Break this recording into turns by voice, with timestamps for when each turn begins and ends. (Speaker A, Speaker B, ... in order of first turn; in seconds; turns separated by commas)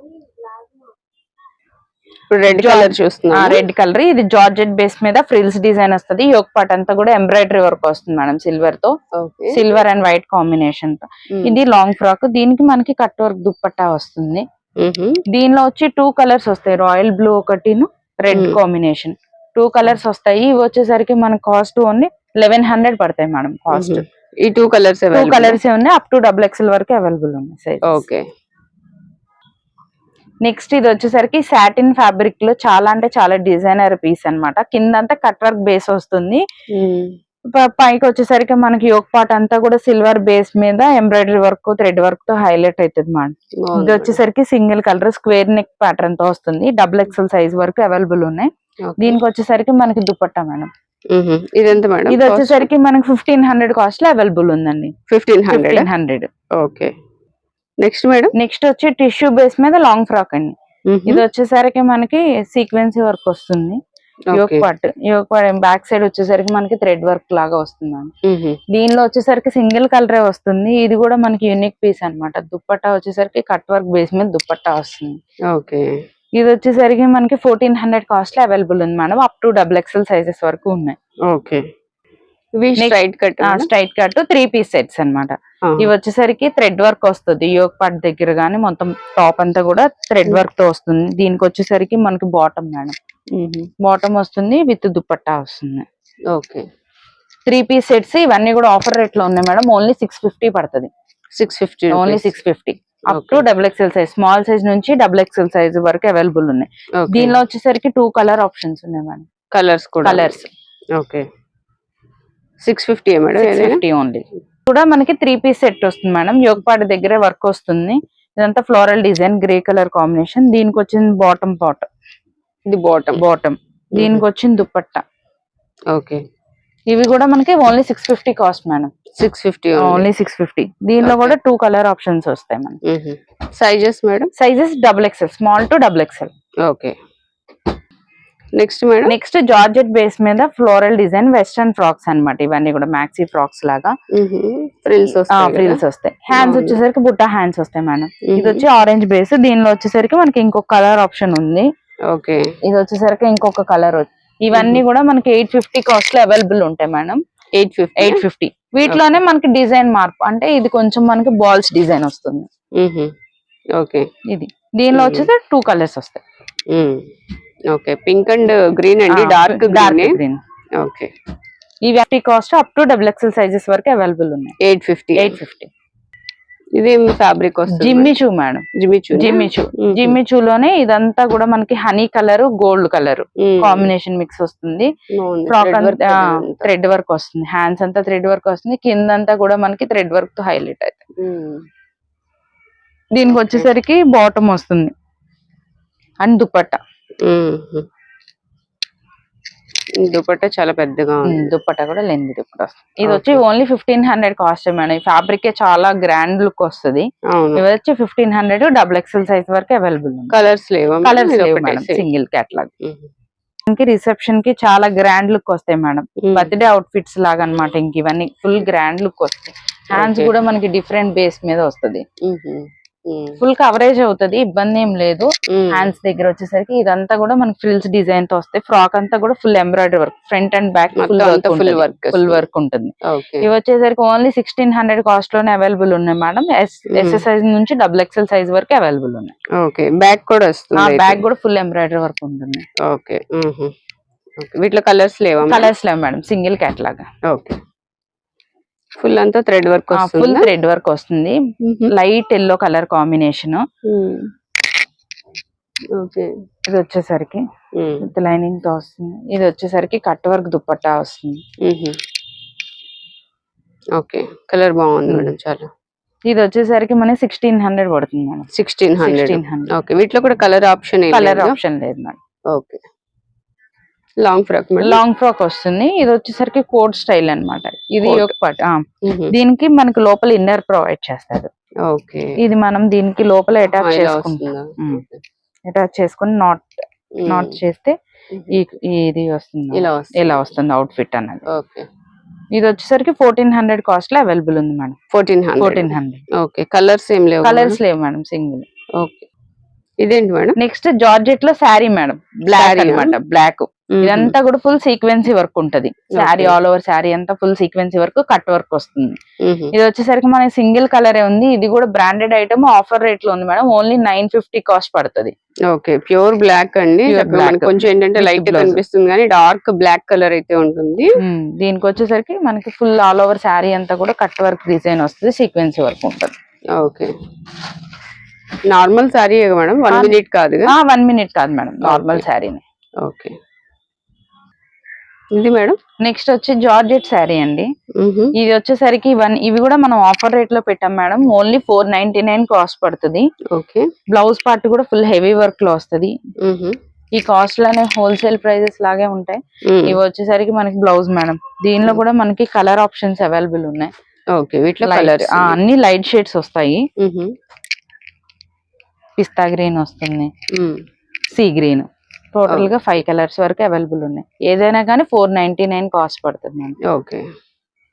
Speaker A: 2.3-3.6, Speaker B: 2.5-8.9, Speaker A: 9.1-9.6, Speaker B: 9.5-14.4, Speaker A: 11.3-11.6, Speaker A: 14.8-15.2, Speaker B: 15.3-24.0, Speaker A: 18.3-18.6, Speaker A: 23.7-25.6, Speaker B: 25.1-28.0, Speaker A: 27.8-28.2, Speaker B: 30.4-36.4, Speaker A: 36.7-37.1, Speaker B: 37.4-50.7, Speaker A: 43.6-44.2, Speaker A: 48.9-49.2, Speaker A: 51.1-52.7, Speaker B: 52.1-54.9, Speaker A: 55.1-55.9, Speaker B: 55.5-56.3, Speaker A: 56.5-56.9, Speaker A: 57.8-58.3, Speaker B: 58.3-60.5, Speaker A: 60.9-61.2, Speaker B: 61.0-63.8, Speaker A: 64.3-64.7, Speaker B: 64.3-68.1, Speaker A: 68.2-68.6, Speaker B: 68.7-75.2, Speaker A: 75.5-76.0, Speaker B: 76.3-81.0, Speaker A: 81.3-81.6, Speaker A: 82.6-83.7, Speaker B: 82.8-93.0, Speaker A: 85.7-85.9, Speaker A: 93.3-93.7, Speaker B: 93.8-95.8, Speaker A: 96.3-96.7, Speaker B: 97.5-100.9, Speaker A: 101.3-102.3, Speaker B: 101.9-109.3, Speaker A: 103.1-103.4, Speaker A: 107.0-107.4, Speaker A: 109.5-110.4, Speaker B: 110.0-110.5, Speaker A: 110.9-111.2, Speaker A: 112.6-113.8, Speaker B: 113.4-121.9, Speaker A: 122.7-123.2, Speaker B: 123.2-125.0, Speaker A: 123.9-124.2, Speaker A: 125.9-126.2, Speaker B: 126.9-128.9, Speaker A: 129.1-130.1, Speaker B: 129.8-132.8, Speaker A: 131.0-131.3, Speaker A: 132.8-134.3, Speaker B: 134.3-136.3, Speaker A: 136.6-136.9, Speaker A: 138.6-139.2, Speaker B: 139.1-143.9, Speaker A: 144.1-146.8, Speaker B: 145.3-151.7, Speaker A: 148.2-148.6, Speaker A: 152.1-152.5, Speaker B: 152.6-157.2, Speaker A: 154.5-154.8, Speaker A: 157.6-158.2, Speaker B: 158.0-162.5, Speaker A: 162.8-163.1, Speaker A: 163.7-164.1, Speaker B: 164.3-166.2, Speaker A: 164.9-165.3, Speaker A: 166.7-167.1, Speaker A: 167.7-170.2, Speaker B: 169.1-170.4, Speaker A: 170.8-171.1, Speaker B: 171.8-174.5, Speaker A: 174.6-175.4, Speaker B: 175.2-175.7, Speaker A: 176.7-178.1, Speaker B: 177.7-184.9, Speaker A: 178.7-180.2, Speaker A: 183.4-183.9, Speaker A: 185.1-186.7, Speaker B: 185.5-191.0, Speaker A: 191.2-191.6, Speaker B: 193.1-194.9, Speaker B: 196.2-196.8, Speaker A: 197.2-197.8, Speaker A: 200.0-201.5, Speaker B: 201.2-210.3, Speaker A: 203.0-203.4, Speaker A: 207.3-207.6, Speaker A: 210.3-212.0, Speaker B: 211.0-212.7, Speaker A: 212.8-213.1, Speaker B: 213.7-222.0, Speaker A: 216.2-216.5, Speaker A: 219.9-220.3, Speaker A: 222.2-223.4, Speaker B: 223.4-239.3, Speaker A: 225.5-225.9, Speaker A: 230.9-232.4, Speaker A: 233.0-233.5, Speaker A: 236.9-237.2, Speaker A: 239.5-241.2, Speaker B: 240.7-242.7, Speaker A: 242.8-243.7, Speaker A: 244.4-245.7, Speaker B: 245.5-247.1, Speaker A: 247.3-247.6, Speaker A: 249.0-250.5, Speaker B: 249.9-251.4, Speaker A: 251.6-251.9, Speaker B: 251.9-253.6, Speaker A: 253.8-254.3, Speaker A: 255.9-256.3, Speaker B: 256.6-257.4, Speaker A: 257.7-258.1, Speaker B: 258.0-261.4, Speaker A: 261.6-262.0, Speaker A: 263.9-265.7, Speaker B: 265.1-265.3, Speaker B: 266.3-268.5, Speaker A: 268.5-271.6, Speaker B: 269.0-269.7, Speaker B: 271.1-272.2, Speaker A: 272.5-272.8, Speaker A: 274.2-275.0, Speaker B: 274.8-281.5, Speaker A: 278.0-278.3, Speaker A: 279.0-279.3, Speaker A: 281.8-282.4, Speaker B: 282.4-285.0, Speaker A: 283.7-285.2, Speaker B: 285.7-287.9, Speaker A: 287.1-287.6, Speaker A: 288.3-288.6, Speaker B: 288.5-291.4, Speaker A: 289.7-290.5, Speaker A: 291.5-291.9, Speaker B: 292.5-295.0, Speaker A: 295.1-297.8, Speaker B: 295.6-296.2, Speaker B: 297.4-298.6, Speaker A: 299.0-299.3, Speaker A: 300.0-300.6, Speaker B: 300.6-309.2, Speaker A: 302.5-303.1, Speaker A: 303.9-304.4, Speaker A: 306.1-306.5, Speaker A: 309.4-309.7, Speaker B: 309.7-315.3, Speaker A: 315.7-321.2, Speaker B: 317.1-318.8, Speaker B: 321.2-326.3, Speaker A: 326.7-327.1, Speaker A: 328.7-330.7, Speaker B: 329.9-332.6, Speaker A: 331.8-332.2, Speaker A: 333.0-333.4, Speaker A: 335.3-335.8, Speaker B: 336.0-337.7, Speaker A: 338.0-338.3, Speaker B: 338.4-343.3, Speaker A: 343.5-343.9, Speaker B: 344.1-346.1, Speaker A: 346.4-346.8, Speaker B: 347.1-353.9, Speaker A: 349.6-350.0, Speaker A: 354.3-355.6, Speaker B: 354.8-356.9, Speaker A: 357.0-357.3, Speaker B: 359.2-360.3, Speaker A: 360.5-360.8, Speaker B: 361.3-366.8, Speaker A: 366.8-367.2